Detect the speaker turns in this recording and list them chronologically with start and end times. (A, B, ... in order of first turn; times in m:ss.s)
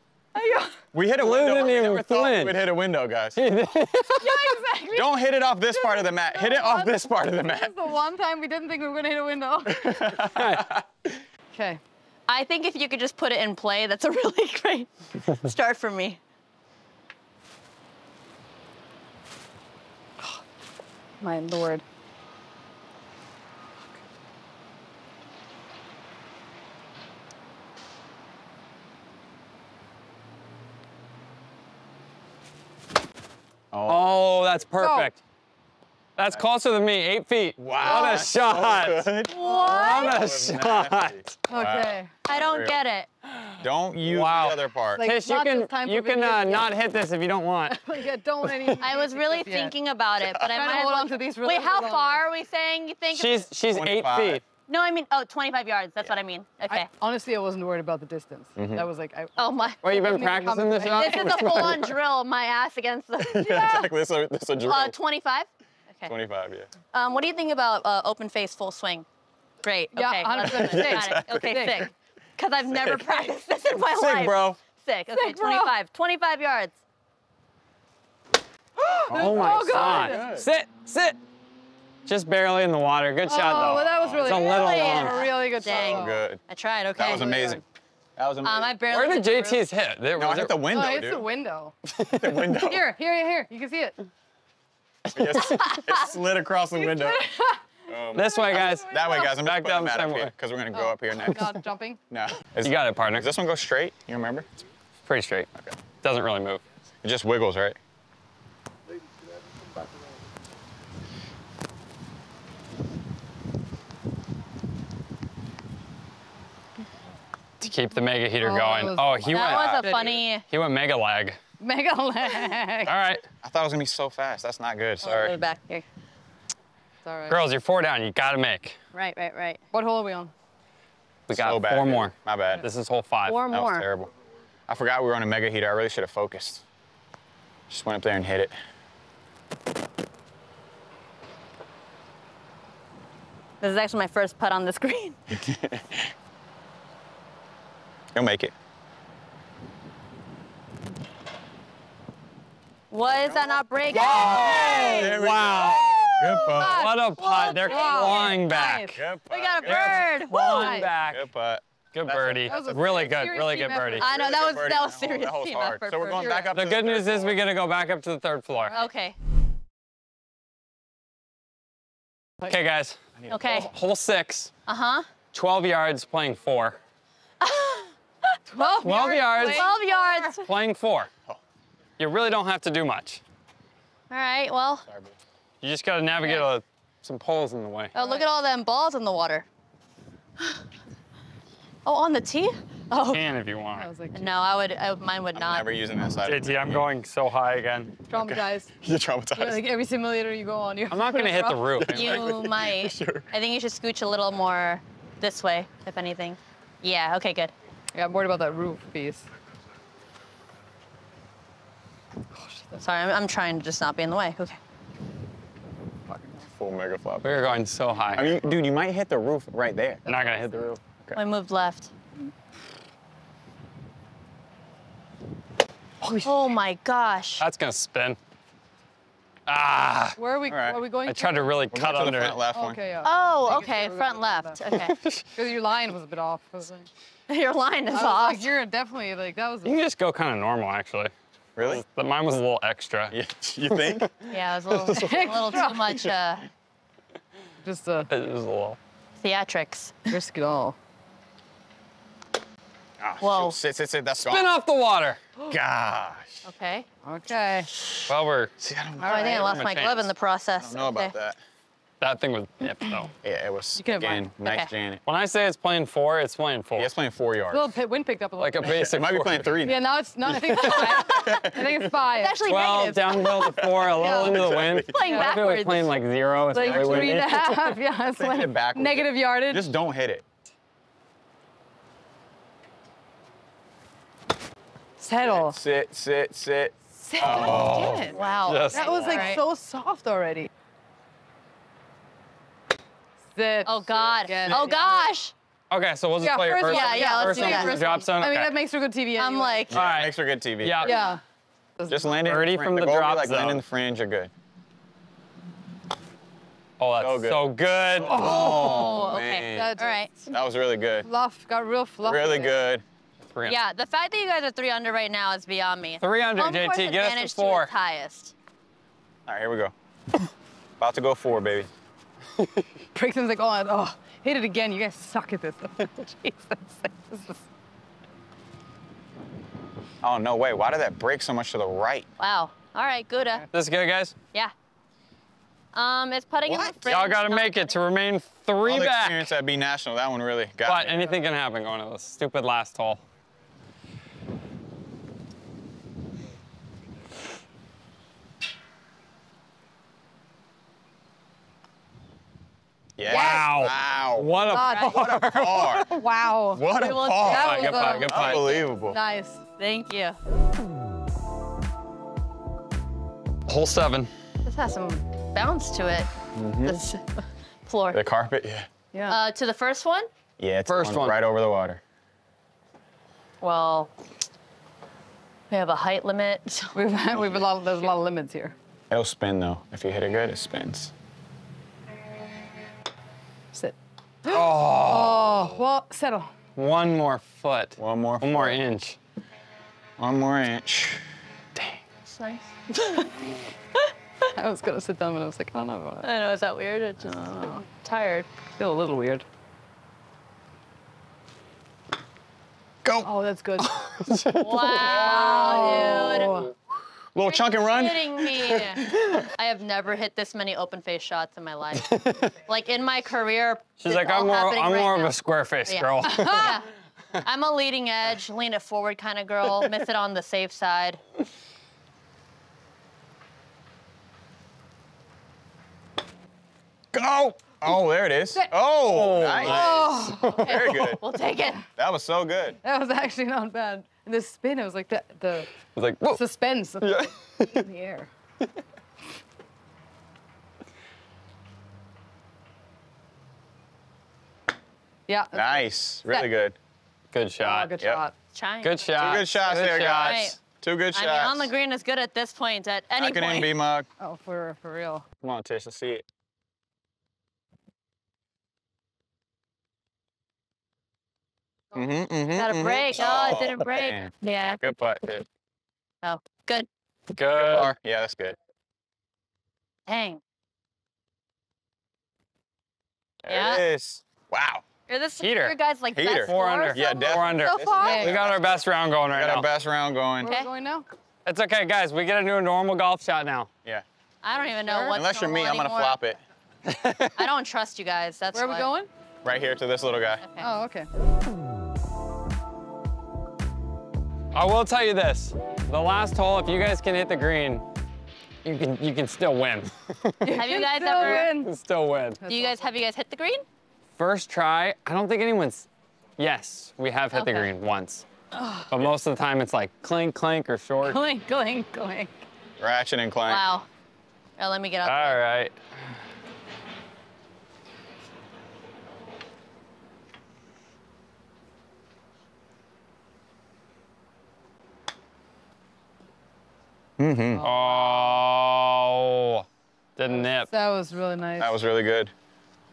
0:00.3-0:00.8 A
0:00.9-0:03.4 B
0:01.2-0:02.6 C
0:03.4-0:04.6 C
0:04.2-0:05.1 A
0:04.9-0:07.7 B
0:05.7-0:10.2 A
0:09.6-0:11.2 B
0:10.3-0:10.7 C
0:11.5-0:11.8 A
0:12.3-0:16.2 D
0:21.2-0:21.8 A
0:33.7-0:34.1 B
0:33.9-0:35.2 C
0:34.8-0:35.1 A
0:36.2-0:39.1 C
0:37.6-0:42.8 B
0:37.9-0:38.3 A
0:39.3-0:40.2 D
0:39.3-0:40.1 A
0:39.6-0:41.3 C
0:41.5-0:42.1 A
0:42.2-0:43.1 D
0:43.3-0:47.8 C
0:43.6-0:45.1 B
0:45.0-0:46.7 A
0:47.7-0:49.7 A
0:48.4-0:48.8 C
0:48.8-0:53.5 D
0:50.5-0:52.2 A
0:53.1-0:54.4 C
0:53.7-0:54.4 B
0:54.7-0:56.9 D
0:56.7-1:01.6 A
0:58.6-0:58.9 B
0:59.4-0:59.8 D
0:59.8-1:02.0 C
1:00.9-1:03.9 D
1:03.2-1:05.0 B
1:04.6-1:06.1 D
1:06.0-1:06.7 B
1:06.9-1:09.0 D
1:09.6-1:16.7 D
1:09.9-1:11.8 A
1:10.4-1:11.9 B
1:12.7-1:13.2 B
1:13.8-1:14.6 B
1:15.1-1:15.7 A
1:18.8-1:20.3 A
1:19.1-1:20.5 B
1:19.1-1:21.2 C
1:22.0-1:25.3 C
1:23.2-1:26.2 A
1:23.5-1:24.5 B
1:24.2-1:27.6 D
1:25.6-1:26.4 B
1:27.0-1:27.6 B
1:27.0-1:27.6 A
1:28.2-1:28.7 B
1:28.4-1:29.6 D
1:28.9-1:30.6 C
1:30.1-1:31.2 B
1:30.7-1:31.8 A
1:31.9-1:32.6 C
1:32.1-1:32.9 B
1:32.6-1:34.0 A
1:35.1-1:37.2 B
1:36.7-1:37.6 A
1:37.9-1:41.5 B
1:38.1-1:39.3 A
1:38.1-1:40.3 C
1:40.7-1:42.0 A
1:42.1-1:44.5 B
1:42.6-1:43.3 C
1:45.0-1:45.5 C
1:46.0-1:46.6 C
1:47.0-1:47.8 B
1:57.6-2:01.4 C
1:58.4-2:00.2 A
1:59.3-2:00.4 D
2:01.6-2:02.9 A
2:02.8-2:03.2 C
2:03.4-2:05.4 B
2:05.0-2:05.8 D
2:07.0-2:07.4 A
2:07.3-2:08.8 C
2:08.9-2:09.6 D
2:09.7-2:10.3 A
2:11.3-2:13.4 C
2:11.3-2:12.7 B
2:13.3-2:13.8 D
2:13.5-2:14.1 B
2:14.7-2:16.6 B
2:17.7-2:18.5 B
2:23.6-2:25.2 D
2:25.3-2:26.1 B
2:28.1-2:28.5 B
2:32.9-2:35.1 D
2:33.2-2:36.9 B
2:33.9-2:39.0 C
2:34.3-2:34.9 A
2:36.5-2:39.0 A
2:37.3-2:38.7 D
2:38.9-2:40.1 B
2:39.3-2:40.8 D
2:39.6-2:41.2 C
2:40.3-2:40.9 A
2:41.0-2:43.1 B
2:41.9-2:44.0 C
2:42.5-2:44.1 A
2:44.0-2:46.5 D
2:44.0-2:47.4 B
2:46.1-2:46.5 A
2:46.5-2:48.7 C
2:48.6-2:48.9 A
2:48.7-2:49.2 D
2:52.5-2:53.0 C
2:53.2-2:53.7 B
2:53.3-2:53.7 D
2:53.5-2:54.5 C
2:54.6-2:55.1 D
2:55.3-2:56.8 C
2:57.4-2:58.7 D
2:58.5-3:00.3 A
2:58.8-2:59.7 C
2:59.4-3:00.5 D
3:00.4-3:01.1 C
3:02.0-3:03.2 C
3:04.1-3:04.9 D
3:04.9-3:05.2 B
3:05.6-3:07.9 C
3:07.9-3:09.5 D
3:08.0-3:08.3 A
3:11.8-3:13.2 D
3:13.1-3:13.9 C
3:13.8-3:14.3 A
3:14.1-3:15.7 D
3:15.3-3:16.9 B
3:16.2-3:18.0 C
3:18.1-3:18.7 A
3:18.1-3:19.7 B
3:19.4-3:21.8 A
3:20.9-3:22.2 C
3:21.7-3:23.3 B
3:21.9-3:27.5 D
3:27.9-3:29.2 A
3:32.4-3:32.7 A
3:32.8-3:34.6 D
3:36.1-3:36.5 A
3:36.5-3:37.5 B
3:37.2-3:38.4 C
3:38.1-3:40.0 B
3:40.0-3:40.8 C
3:41.1-3:41.9 D
3:46.2-3:47.4 D
3:47.4-3:48.2 C
3:49.5-3:50.2 C
3:50.2-3:51.6 A
3:50.5-3:50.8 B
3:51.0-3:52.4 C
3:51.7-3:52.8 B
3:52.5-3:54.6 A
3:53.0-3:54.9 D
3:54.7-3:55.2 C
3:55.3-3:56.9 A
3:57.3-3:58.5 D
3:57.9-3:59.7 A
3:59.6-4:03.2 C
4:01.6-4:01.8 B
4:03.1-4:04.2 B
4:03.7-4:04.1 C
4:04.3-4:06.4 D
4:04.9-4:06.0 A
4:05.1-4:06.1 B
4:07.6-4:08.1 A
4:08.1-4:08.8 C
4:09.2-4:10.1 D
4:10.1-4:10.8 A
4:13.0-4:14.5 B
4:13.2-4:13.6 D
4:14.2-4:15.2 C
4:15.5-4:16.4 B
4:16.4-4:16.8 D
4:17.0-4:17.7 A
4:18.1-4:18.5 C
4:18.6-4:19.8 B
4:19.0-4:19.6 A
4:19.0-4:21.1 D
4:19.4-4:20.1 C
4:20.6-4:21.4 B
4:22.0-4:23.1 C
4:23.2-4:25.0 B
4:23.8-4:24.2 A
4:24.4-4:24.7 D
4:25.0-4:26.9 C
4:26.7-4:27.7 B
4:27.5-4:28.8 A
4:28.4-4:29.5 C
4:28.6-4:31.9 B
4:29.6-4:32.4 A
4:32.2-4:33.5 D
4:32.4-4:37.8 C
4:33.7-4:35.1 B
4:33.9-4:34.4 A
4:34.9-4:35.9 D
4:35.0-4:35.4 A
4:36.5-4:39.6 A
4:36.6-4:37.2 B
4:38.1-4:40.2 B
4:45.0-4:45.6 A
4:45.2-4:48.3 B
4:47.0-4:48.2 A
4:47.3-4:49.4 C
4:47.4-4:49.4 D
4:48.7-4:50.5 A
4:53.3-4:53.7 A
4:53.6-4:55.3 D
4:54.2-4:55.1 A
4:55.7-4:58.6 C
4:56.2-4:59.6 A
4:56.7-4:58.1 D
4:59.2-4:59.8 D
4:59.7-5:01.0 B
4:59.7-5:01.0 C
5:00.8-5:01.2 A
5:01.8-5:02.1 A
5:01.9-5:04.3 B
5:02.2-5:03.6 C
5:06.8-5:08.2 C
5:07.0-5:09.7 B
5:08.1-5:10.1 D
5:08.1-5:10.1 A
5:10.3-5:11.1 B
5:11.0-5:12.5 A
5:12.0-5:12.8 B
5:13.5-5:18.3 D
5:16.0-5:17.7 C
5:19.3-5:19.7 B
5:20.8-5:21.7 B
5:22.9-5:27.4 A
5:30.0-5:32.1 B
5:32.2-5:33.4 D
5:33.5-5:34.1 C
5:35.7-5:37.8 D
5:36.4-5:37.0 B
5:36.9-5:39.3 C
5:38.6-5:41.2 B
5:40.6-5:43.0 C
5:53.0-5:55.9 B
5:53.0-5:56.0 C
5:53.1-5:53.5 A
5:54.5-5:55.2 A
5:55.8-5:58.2 A
5:56.5-5:59.0 B
5:56.7-5:58.0 D
5:57.2-5:58.6 C
5:58.9-5:59.4 A
5:59.6-6:00.2 D
6:03.5-6:04.1 C
6:04.4-6:06.1 D
6:06.3-6:06.8 B
6:06.6-6:08.0 D
6:07.9-6:08.7 B
6:08.9-6:09.2 A
6:09.1-6:10.1 D
6:10.4-6:11.8 B
6:10.7-6:11.2 C
6:13.4-6:13.9 D
6:15.5-6:16.7 D
6:16.7-6:18.5 A
6:18.9-6:20.9 B
6:23.5-6:26.3 A
6:24.2-6:25.5 C
6:26.6-6:29.0 C
6:27.8-6:28.6 B
6:30.0-6:31.0 B
6:32.1-6:33.1 D
6:34.4-6:36.1 A
6:36.0-6:38.3 D
6:38.6-6:39.2 A
6:42.8-6:43.1 B
6:43.0-6:43.7 A
6:43.6-6:45.9 C
6:44.4-6:46.4 D
6:44.8-6:46.5 A
6:47.1-6:49.1 B
6:47.6-6:55.1 D
6:51.7-6:52.3 C
6:53.8-6:56.6 C
6:55.7-6:56.7 D
6:56.0-6:56.6 A
6:57.2-7:01.0 D
7:06.9-7:11.0 B
7:08.9-7:10.4 C
7:09.4-7:10.6 A
7:10.2-7:11.6 D
7:11.8-7:12.6 B
7:12.6-7:15.5 A
7:15.7-7:16.2 C
7:16.1-7:18.1 A
7:16.8-7:17.5 C
7:25.1-7:25.5 A
7:25.3-7:26.6 B
7:27.1-7:27.7 C
7:27.4-7:28.1 A
7:27.8-7:28.0 B
7:28.3-7:28.8 D
7:28.6-7:30.4 C
7:28.9-7:31.5 B
7:29.8-7:30.4 D
7:30.9-7:33.5 D
7:33.0-7:33.9 B
7:34.0-7:35.0 A
7:35.2-7:36.0 B
7:41.7-7:45.0 B
7:42.3-7:44.7 D
7:46.0-7:46.7 D
7:47.1-7:47.7 C
7:47.4-7:48.4 B
7:49.9-7:50.2 D
7:53.2-7:54.6 B
7:53.3-7:53.6 D
7:54.9-7:58.0 D
7:55.2-7:55.6 C
7:55.9-8:00.3 B
7:56.2-7:59.5 C
7:57.5-7:58.1 A
8:00.2-8:00.9 A
8:01.2-8:03.5 C
8:04.2-8:06.0 D
8:04.6-8:05.0 A
8:04.9-8:06.2 B
8:06.6-8:07.3 C
8:07.2-8:08.7 D
8:08.3-8:08.9 A
8:09.2-8:10.2 B
8:10.2-8:10.5 D
8:10.4-8:10.9 A
8:14.3-8:17.6 C
8:18.4-8:20.2 C
8:20.2-8:21.5 A
8:20.3-8:21.4 D
8:21.0-8:22.2 C
8:22.2-8:22.6 A
8:22.2-8:23.4 D
8:24.0-8:25.7 C
8:26.2-8:28.0 C
8:27.1-8:27.5 D
8:28.3-8:28.7 A
8:28.7-8:31.0 C
8:30.8-8:32.1 A
8:32.6-8:33.5 B
8:33.3-8:33.6 D
8:34.4-8:35.2 D
8:34.8-8:35.6 C
8:47.0-8:47.4 B
8:47.3-8:48.2 A
8:47.4-8:49.4 C
8:50.0-8:50.5 C
8:50.1-8:51.5 A
8:51.4-8:52.1 B